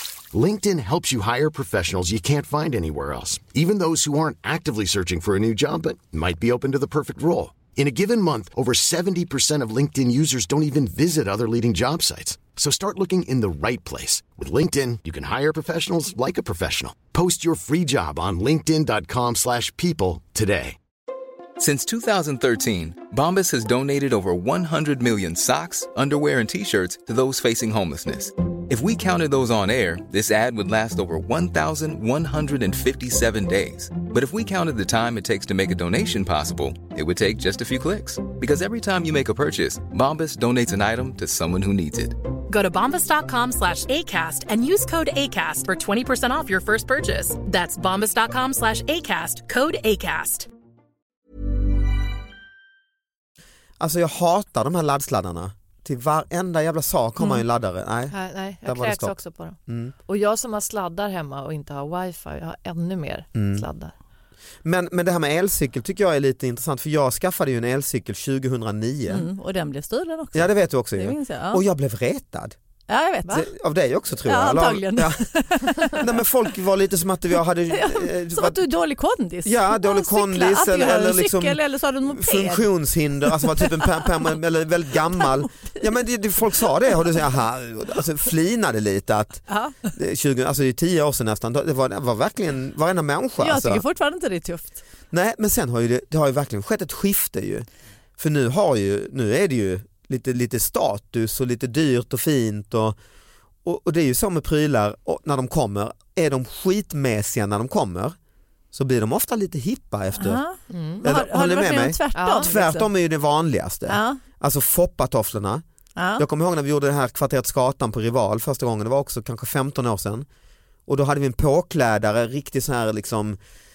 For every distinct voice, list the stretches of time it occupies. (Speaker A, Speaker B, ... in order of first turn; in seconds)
Speaker A: 0.3-20.8
Speaker B: 21.6-42.2
Speaker C: 42.5-50.5
Speaker D: 53.8-59.1, 59.7-59.9, 63.3-63.6, 64.6-69.3, 70.3-72.5, 73.3-75.3, 75.8-78.7, 79.4-93.8, 95.1-97.7, 98.2-103.0, 103.6-108.2, 108.7-110.4, 111.0-115.6, 116.2-120.2, 120.9-123.4
Speaker E: 58.1-63.9, 110.7-111.0, 112.1-112.5
Speaker F: 69.1-71.6, 72.9-73.5, 74.2-76.1, 77.7-82.7, 83.2-84.1, 85.2-85.5, 89.5-89.9, 93.4-94.8, 110.2-112.8, 113.9-114.2, 116.0-116.2